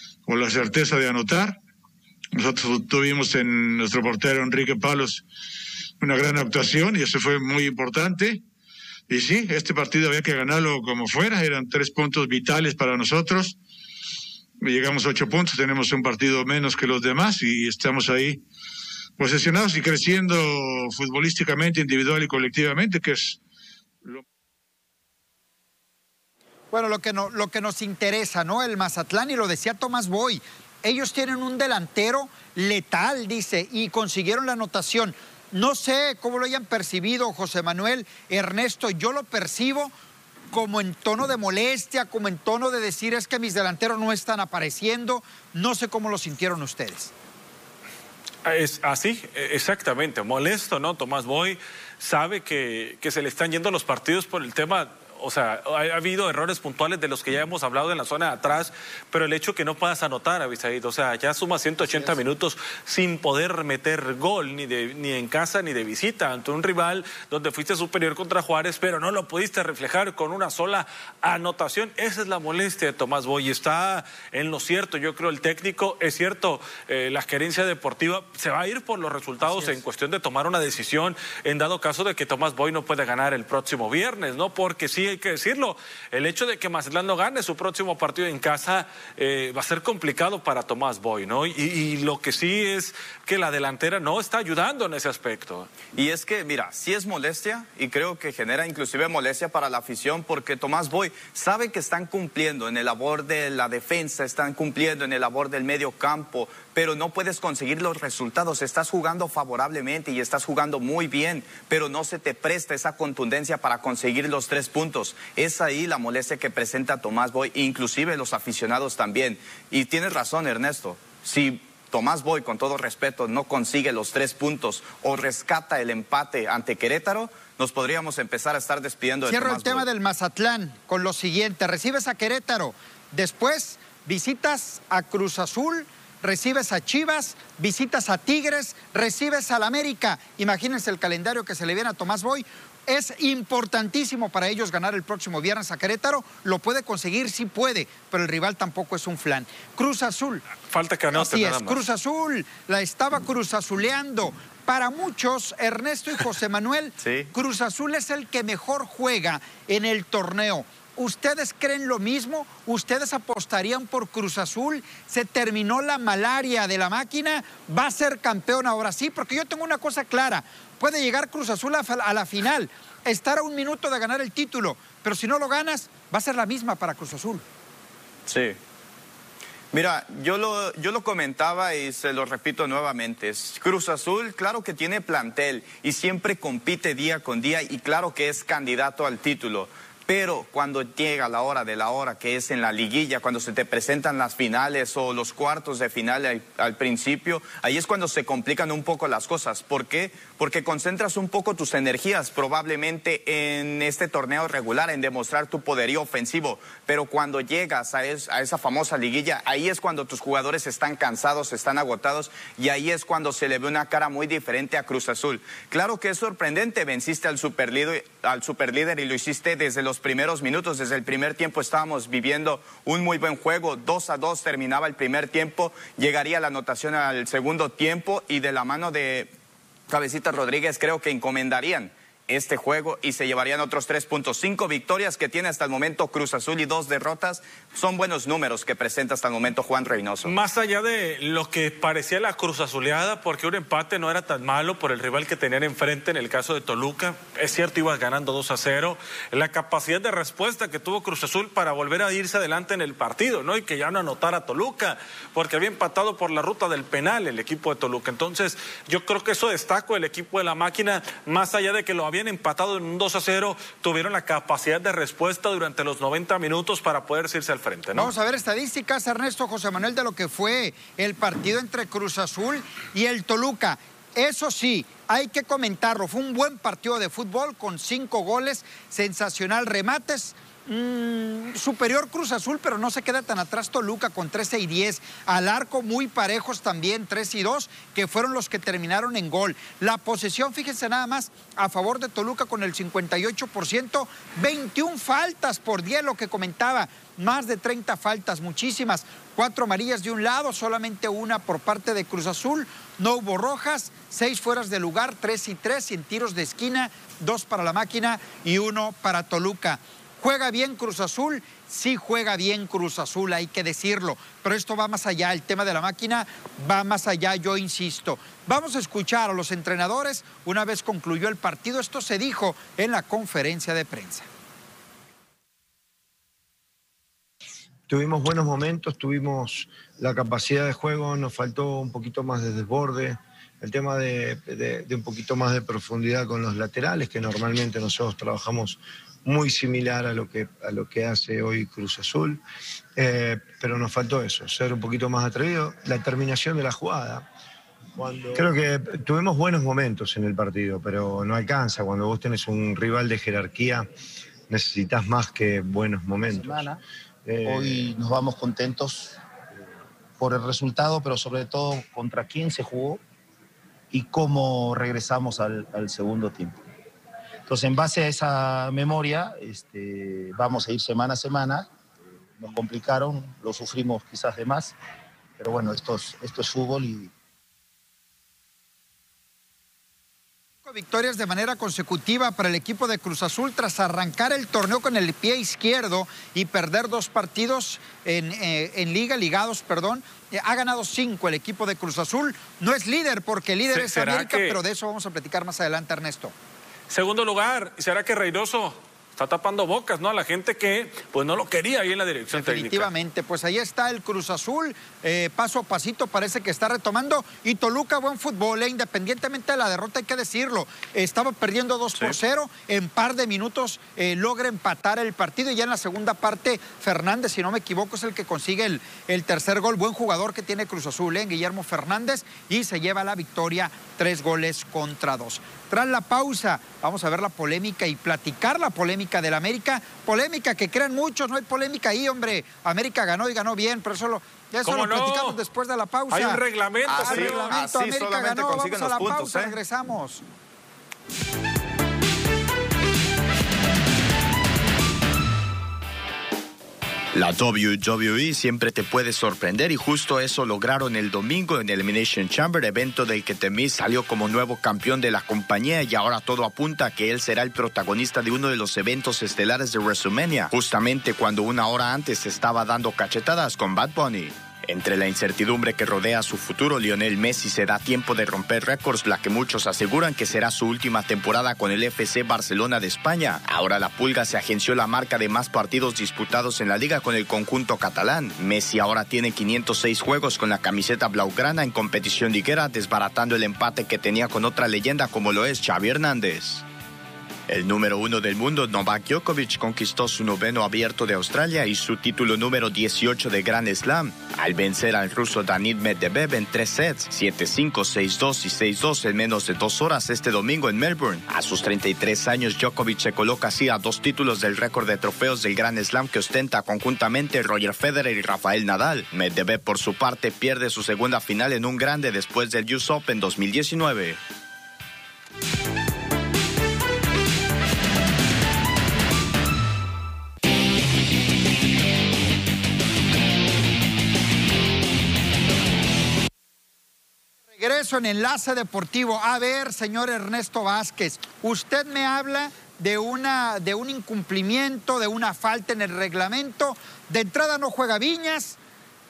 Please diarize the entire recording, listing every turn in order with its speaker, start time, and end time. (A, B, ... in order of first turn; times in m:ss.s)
0:00.2-0:01.6 A
0:02.3-0:05.2 A
0:06.0-0:08.4 A
0:09.1-0:13.6 A
0:14.6-0:18.4 A
0:19.2-0:23.4 A
0:26.7-0:39.9 B
0:40.5-0:47.1 B
0:48.4-1:35.7 C
1:35.9-2:09.8 D
2:09.3-2:30.4 B
2:30.7-2:31.8 C
2:31.1-2:57.4 B
2:37.0-2:37.3 D
2:58.3-2:58.6 D
2:59.7-3:49.3 D
3:49.9-4:00.3 D
4:00.2-4:28.1 C
4:27.9-5:24.3 B
5:27.9-5:42.4 E
5:43.0-5:47.3 E
5:48.0-5:53.9 E
5:54.5-5:56.7 E
5:56.3-5:56.8 F
5:57.2-5:57.9 E
5:57.4-5:59.2 F
6:00.2-6:03.0 F
6:03.9-6:06.6 F
6:07.5-6:11.7 F
6:12.4-6:14.7 F
6:15.4-6:17.1 F
6:20.6-6:36.3 B
6:33.7-6:34.6 C
6:36.9-6:42.9 C
6:42.3-7:16.4 B
7:14.6-7:15.4 C
7:16.1-7:17.6 C
7:16.8-7:19.6 D
7:17.0-7:20.2 B
7:27.1-8:06.6 G
8:07.5-8:34.2 G
8:47.5-8:58.6 B